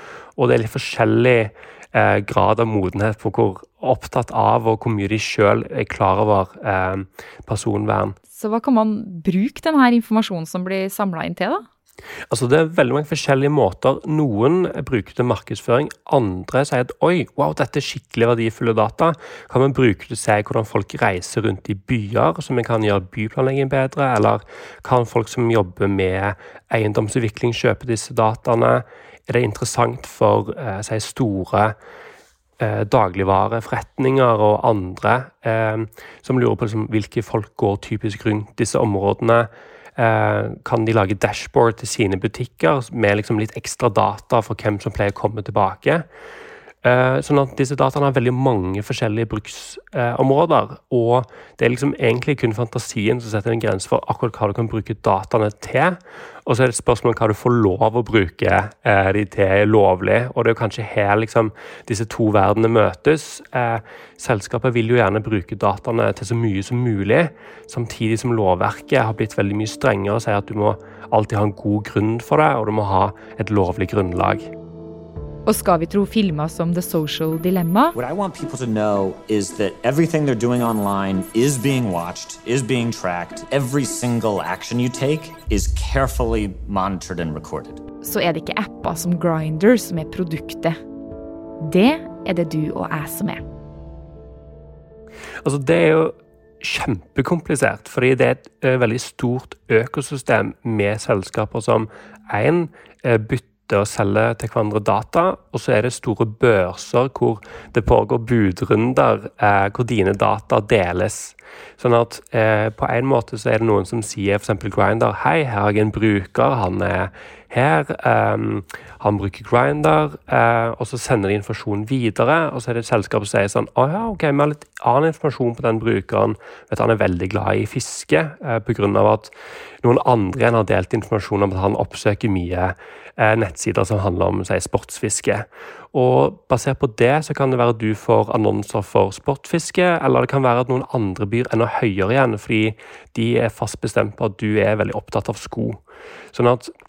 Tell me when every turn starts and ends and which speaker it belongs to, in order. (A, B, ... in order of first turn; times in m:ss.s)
0:00.4-0:08.2 A
0:08.3-0:11.6 B
0:12.3-0:31.8 A
0:32.6-0:46.0 A
0:46.8-1:14.5 A
1:15.4-1:17.9 B
1:17.9-1:27.8 C
1:28.0-1:30.8 B
1:31.6-1:33.4 B
1:35.4-2:09.3 A
2:09.8-2:25.8 A
2:26.3-2:26.7 A